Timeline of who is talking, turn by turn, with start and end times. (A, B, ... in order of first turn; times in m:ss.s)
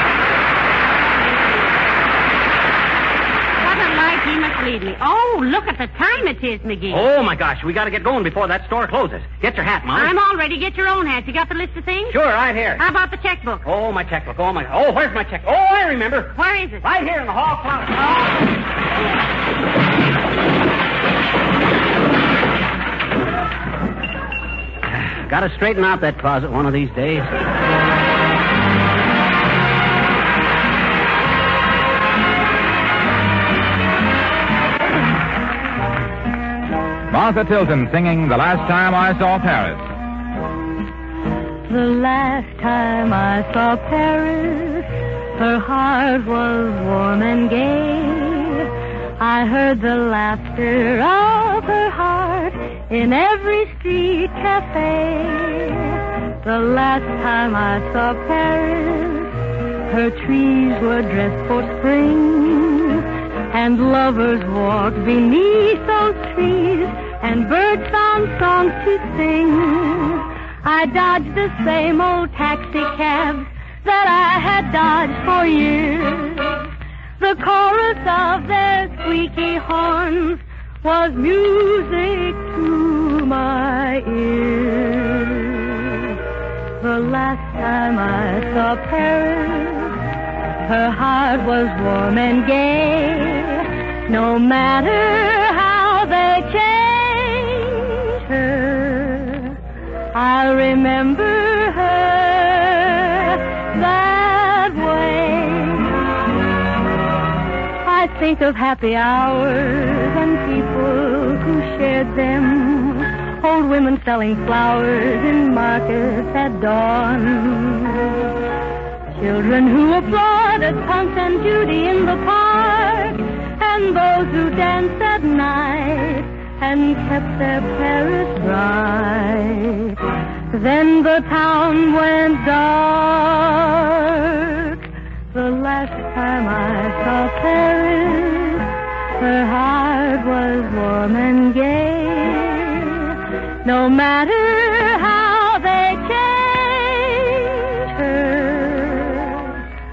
0:03.6-0:07.0 A
0:06.9-0:10.1 B
0:09.9-0:12.2 A
0:12.1-0:12.8 B
0:12.8-0:13.6 A
0:13.6-0:18.3 B
0:16.4-0:16.8 A
0:25.2-0:27.3 B
0:37.1-0:39.9 C
0:41.7-1:16.7 D
1:17.2-1:25.7 D
1:26.8-1:30.0 D
1:30.6-1:39.6 D
1:40.1-1:46.0 D
1:47.8-1:58.2 D
1:59.2-2:10.0 D
2:10.5-2:14.8 D
2:15.3-2:29.4 D